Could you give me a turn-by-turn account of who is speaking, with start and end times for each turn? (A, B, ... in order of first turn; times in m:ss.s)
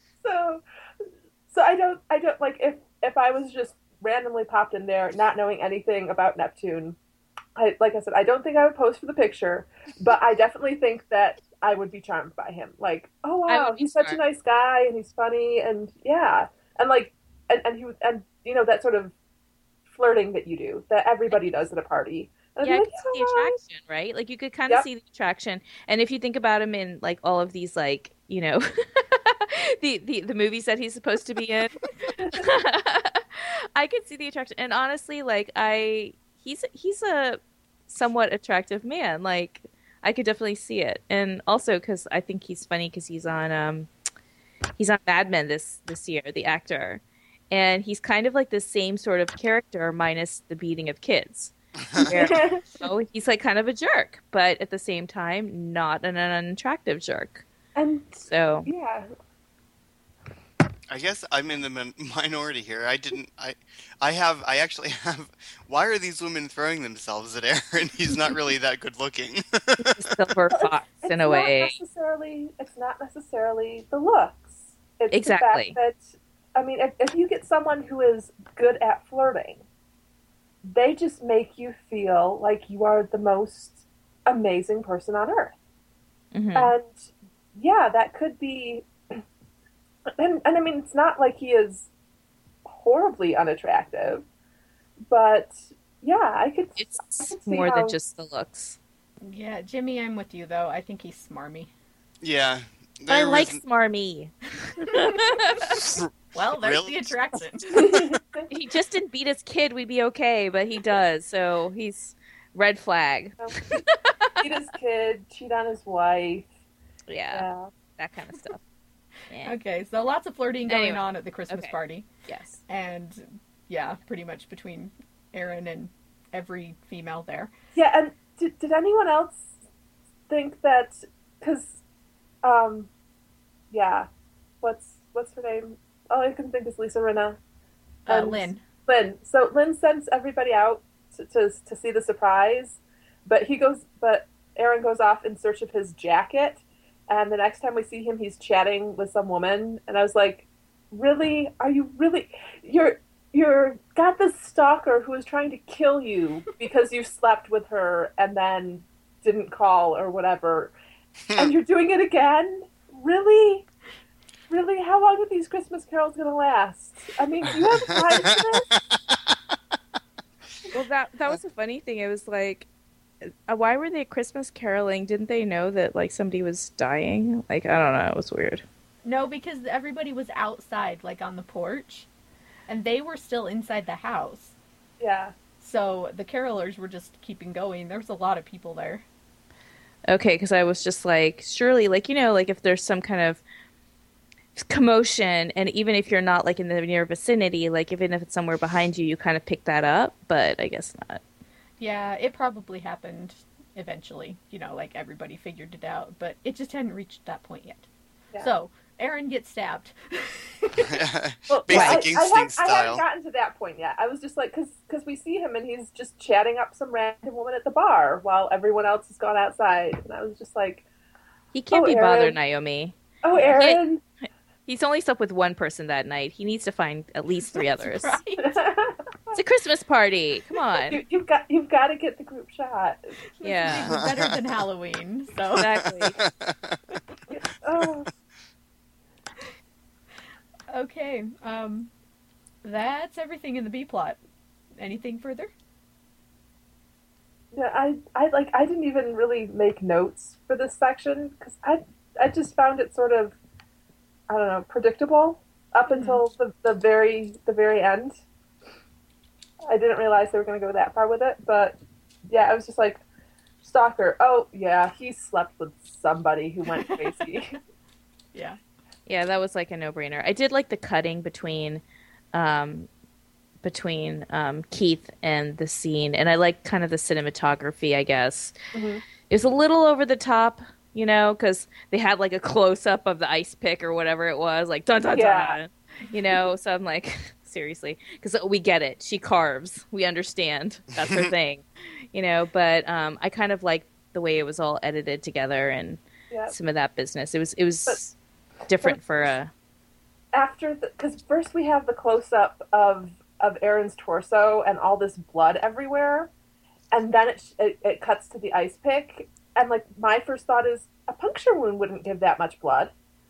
0:00.2-0:00.6 A
0:01.5-0:07.0 A
0:07.6-0:19.1 A
0:13.5-0:14.2 B
0:19.9-0:23.6 A
0:22.6-0:43.9 B
0:32.2-0:32.4 A
0:44.8-0:57.4 B
0:51.9-0:52.1 C
0:52.1-0:52.8 A
0:57.8-0:59.1 A
0:58.3-0:58.7 B
1:00.9-1:10.0 C
1:09.8-1:11.8 B
1:10.5-1:19.6 A
1:15.1-1:15.8 B
1:20.6-1:25.6 A
1:26.3-1:26.7 B
1:26.6-1:29.2 A
1:30.2-1:31.9 A
1:32.7-1:34.2 A
1:35.1-1:38.0 A
1:36.8-1:38.8 B
1:39.2-1:41.7 D
1:42.2-1:43.6 C
1:43.1-1:45.7 B
1:45.8-1:47.1 C
1:46.3-1:47.7 D
1:47.7-1:48.2 C
1:47.7-1:48.5 A
1:48.5-1:54.6 B
1:53.4-1:53.8 A
1:54.4-1:56.5 A
1:57.1-1:58.6 B
1:57.3-1:57.7 A
1:59.3-1:59.6 B
1:59.4-2:02.1 D
2:00.7-2:01.7 B
2:02.3-2:02.6 B
2:02.7-2:07.5 D
2:07.8-2:09.5 A
2:10.3-2:11.8 A
2:12.4-2:12.9 A
2:13.7-2:14.1 A
2:14.6-2:17.4 A
2:18.1-2:18.6 D
2:18.1-2:40.8 A
2:41.4-2:43.7 A
2:44.5-2:48.7 A
2:47.4-2:49.4 C
2:50.7-2:52.7 B
2:53.5-2:58.6 B
2:59.0-3:02.1 D
3:02.7-3:04.6 D
3:05.0-3:05.3 A
3:05.6-3:09.1 D
3:10.1-3:13.4 B
3:14.6-3:21.2 B
3:21.8-3:27.9 D
3:28.4-3:31.0 D
3:30.8-3:33.0 C
3:31.5-3:40.8 A
3:31.7-3:32.1 B
3:41.5-3:43.8 B
3:41.7-3:42.4 A
3:43.2-3:44.0 A
3:44.7-3:48.2 B
3:47.5-3:48.6 D
3:48.4-3:49.4 A
3:49.3-3:51.0 B
3:50.9-3:53.1 A
3:53.4-3:55.8 D
3:53.4-3:54.0 B
3:53.8-3:54.3 C
3:55.6-3:56.2 B
3:55.8-3:56.8 C
3:57.3-3:58.1 A
4:00.7-4:01.9 D
4:02.6-4:04.2 D
4:04.8-4:05.5 D
4:07.5-4:13.4 A
4:14.3-4:18.2 A
4:15.9-4:16.2 D
4:19.7-4:21.8 A
4:22.3-4:23.0 A
4:23.6-4:27.6 A
4:28.3-4:28.6 D
4:29.1-4:31.8 B
4:32.3-4:32.9 B
4:33.6-4:38.5 B
4:38.7-4:39.0 A
4:39.3-4:58.2 B
4:45.0-4:45.6 A
4:51.0-4:51.3 C
4:58.7-4:59.5 B
4:58.8-4:59.3 A
5:00.3-5:06.3 A
5:06.9-5:12.9 A